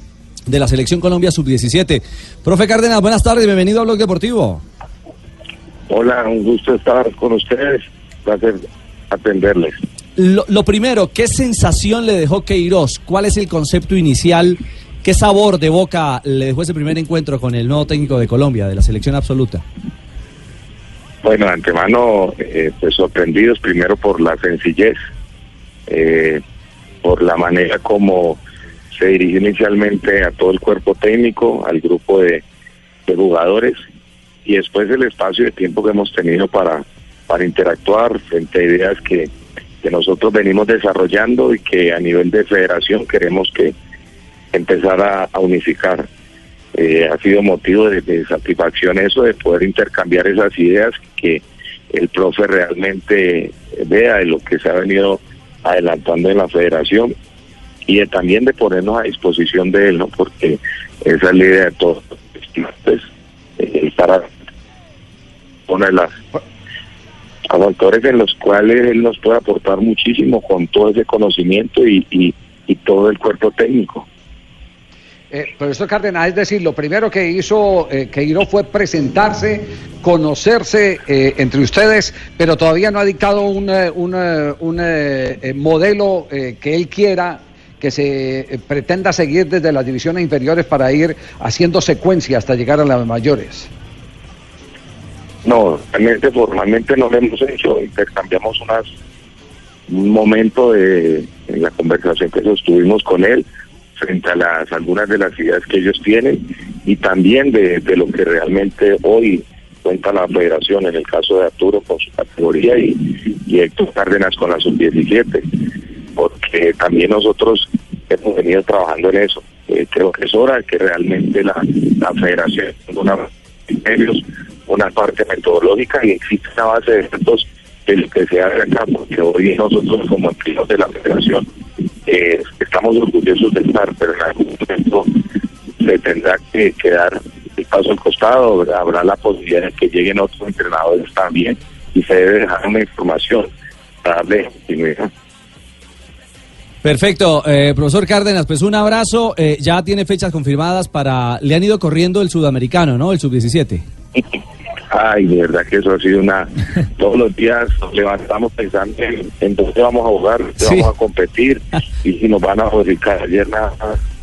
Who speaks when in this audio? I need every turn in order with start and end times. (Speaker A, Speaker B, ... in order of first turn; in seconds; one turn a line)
Speaker A: 0.5-4.6
Speaker B: 5.9-8.6
Speaker B: 9.1-9.7
Speaker A: 10.2-19.6
Speaker B: 21.2-24.9
Speaker B: 25.9-26.4
Speaker B: 27.0-28.4
Speaker B: 28.9-32.4
Speaker B: 33.1-33.7
Speaker B: 34.5-39.3
Speaker B: 39.8-43.7
Speaker B: 44.5-46.1
Speaker B: 46.7-57.1
Speaker B: 57.9-63.0
Speaker B: 63.6-64.2
Speaker B: 65.7-66.1
Speaker B: 67.5-74.0
Speaker C: 75.3-93.7
Speaker B: 95.5-98.8
Speaker B: 99.9-103.4
Speaker B: 104.0-115.4
Speaker B: 116.2-131.4
Speaker B: 132.1-135.1
Speaker B: 135.8-143.5
Speaker B: 144.0-145.1
Speaker A: 146.8-153.8
Speaker B: 154.9-164.0
Speaker A: 160.6-160.9